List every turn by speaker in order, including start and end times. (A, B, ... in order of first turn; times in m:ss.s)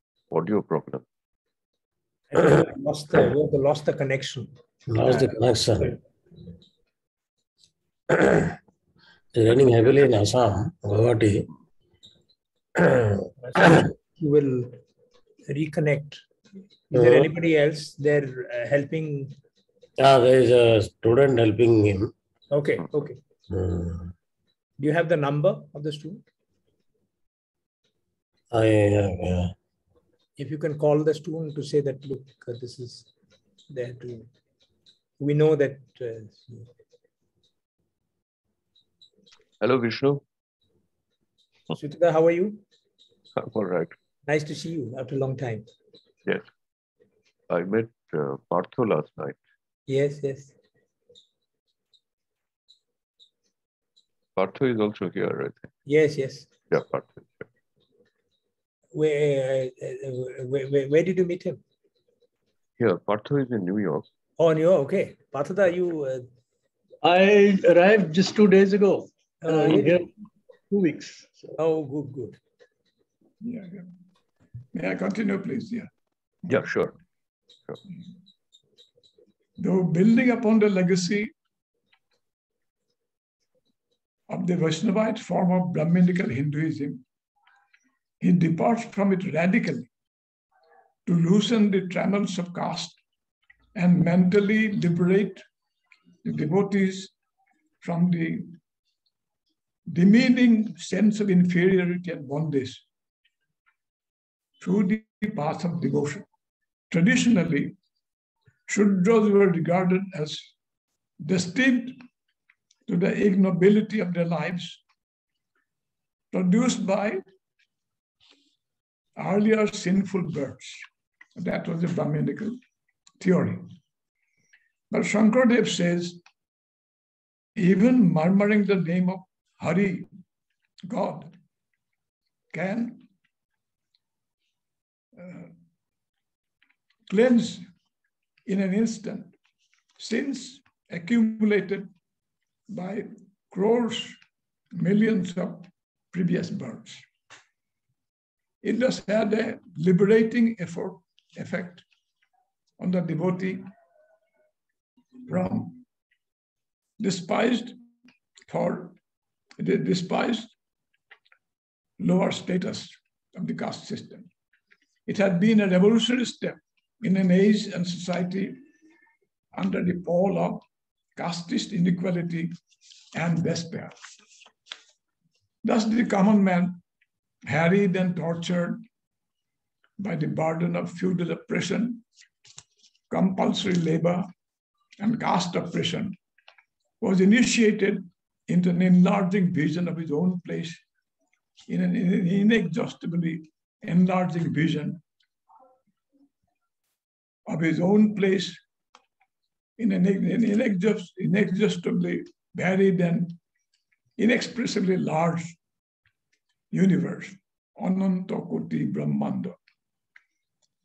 0:00.3-0:01.0 A
0:02.3-0:04.5 B
0:04.9-0:06.0 C
0:08.1-0:08.6 C
0:09.3-0:11.5 C
0:12.8-0:13.8 C
0:13.4-0:14.8 B
0:15.5-0:16.2 B
0:16.9-0:19.3 B
0:16.9-0:17.3 C
0:20.0-0:22.1 C
0:22.5-0:23.2 B
0:23.5-0:24.1 C
0:24.8-0:26.2 B
0:28.5-0:29.5 C
0:30.4-0:33.1 B
0:33.7-0:34.3 B
0:35.2-0:36.7 B
0:39.6-0:40.2 A
0:41.7-0:42.6 B
0:43.4-0:43.9 A
0:44.2-0:45.7 B
0:47.5-0:49.4 A
0:49.9-0:50.5 B
0:54.4-0:55.7 A
0:55.8-0:56.5 B
0:56.7-0:57.4 A
0:58.9-1:01.6 B
1:02.8-1:04.1 A
1:04.4-1:06.2 B
1:07.0-1:10.1 D
1:09.4-1:10.0 B
1:10.7-1:11.5 D
1:11.6-1:12.4 B
1:13.4-1:13.8 E
1:14.7-1:15.9 E
1:16.4-1:16.9 A
1:19.6-1:21.3 E
1:24.3-1:27.0 E
1:28.2-1:29.9 E
1:31.0-1:33.0 E
1:33.7-1:35.4 E
1:36.2-1:37.1 E
1:37.8-1:38.6 E
1:39.9-1:42.8 E
1:44.6-1:46.2 E
1:46.9-1:47.7 E
1:48.7-1:50.5 E
1:51.2-1:52.0 E
1:52.9-1:54.8 E
1:56.3-1:57.2 E
1:59.2-2:02.6 E
2:03.2-2:03.7 E
2:04.9-2:06.2 E
2:07.6-2:10.1 E
2:10.9-2:11.3 E
2:12.5-2:13.0 E
2:15.2-2:15.5 E
2:17.1-2:17.6 E
2:18.4-2:19.3 E
2:20.0-2:21.9 E
2:22.7-2:24.2 E
2:24.7-2:27.0 E
2:28.6-2:31.8 E
2:32.8-2:33.6 E
2:35.2-2:35.8 E
2:37.0-2:37.8 E
2:38.5-2:39.0 E
2:39.6-2:40.5 E
2:42.0-2:44.3 E
2:45.1-2:48.6 E
2:49.5-2:50.6 E
2:51.2-2:52.5 E
2:53.1-2:53.9 E
2:55.6-2:56.8 E
2:57.4-2:58.8 E
3:00.0-3:02.0 E
3:03.1-3:04.3 E
3:05.0-3:06.2 E
3:07.0-3:10.8 E
3:11.7-3:15.0 E
3:17.4-3:18.6 E
3:19.8-3:23.4 E
3:24.2-3:25.6 E
3:26.7-3:29.6 E